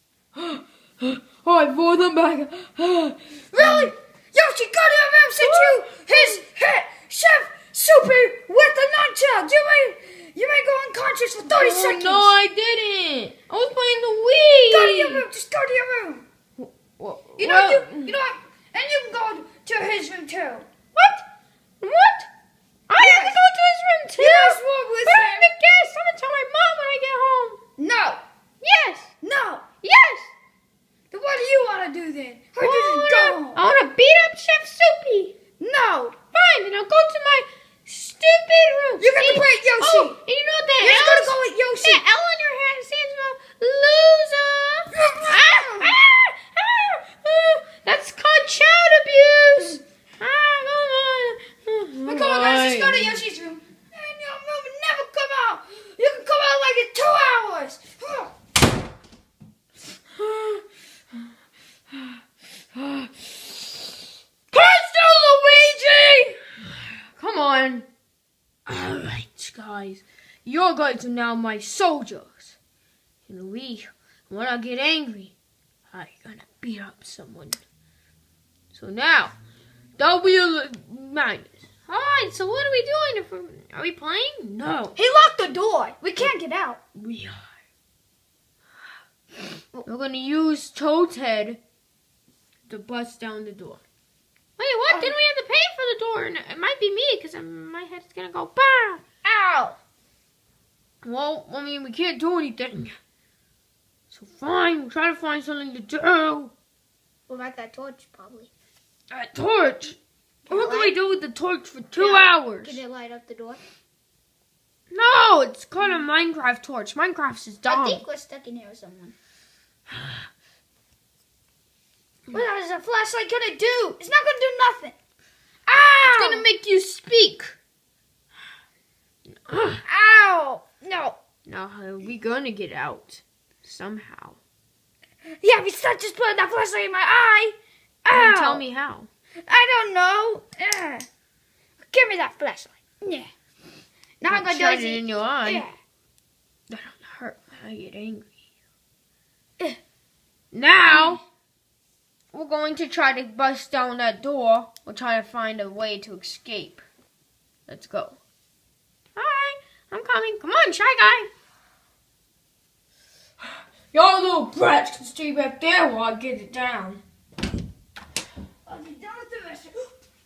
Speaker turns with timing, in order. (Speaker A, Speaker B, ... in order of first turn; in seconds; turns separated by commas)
Speaker A: 0.3-3.9, Speaker B: 3.5-12.3, Speaker A: 5.4-5.8, Speaker A: 11.5-15.2, Speaker B: 14.7-16.2, Speaker A: 16.6-18.1, Speaker B: 17.4-20.6, Speaker A: 20.9-21.2, Speaker A: 21.8-22.3, Speaker A: 22.9-27.6, Speaker B: 23.0-23.4, Speaker B: 24.2-25.5, Speaker B: 27.8-28.2, Speaker A: 28.6-29.1, Speaker B: 29.2-29.6, Speaker A: 29.8-30.3, Speaker B: 31.1-33.6, Speaker A: 32.6-35.3, Speaker B: 35.6-36.1, Speaker A: 36.3-53.2, Speaker B: 39.0-40.2, Speaker B: 40.8-42.0, Speaker B: 44.9-45.9, Speaker B: 52.0-58.3, Speaker A: 60.2-60.6, Speaker A: 62.7-63.8, Speaker A: 64.5-66.4, Speaker A: 67.1-67.9, Speaker A: 68.7-72.5, Speaker A: 73.2-75.3, Speaker A: 75.9-77.6, Speaker A: 78.7-79.3, Speaker A: 80.0-85.0, Speaker B: 85.0-86.8, Speaker A: 86.9-87.5, Speaker A: 89.8-91.6, Speaker A: 92.7-93.8, Speaker A: 94.6-99.0, Speaker B: 94.9-95.2, Speaker B: 99.2-99.8, Speaker A: 101.0-102.9, Speaker A: 104.1-106.5, Speaker B: 107.3-108.5, Speaker A: 109.1-110.0, Speaker B: 110.5-111.0, Speaker A: 110.5-112.8, Speaker B: 112.0-113.6, Speaker A: 114.9-118.0, Speaker B: 117.7-119.1, Speaker B: 122.3-124.9, Speaker B: 125.7-126.4, Speaker A: 126.0-127.6, Speaker A: 129.4-129.8, Speaker B: 129.8-131.2, Speaker A: 131.4-134.4, Speaker B: 135.4-138.6, Speaker A: 138.1-139.1, Speaker B: 139.4-141.1, Speaker B: 141.8-143.3, Speaker B: 144.2-145.8, Speaker A: 144.3-145.6, Speaker A: 146.7-148.3, Speaker A: 150.5-151.2, Speaker B: 150.9-151.2, Speaker A: 152.3-156.8, Speaker A: 157.7-158.2, Speaker A: 159.2-161.3, Speaker A: 163.9-167.0, Speaker B: 168.7-169.9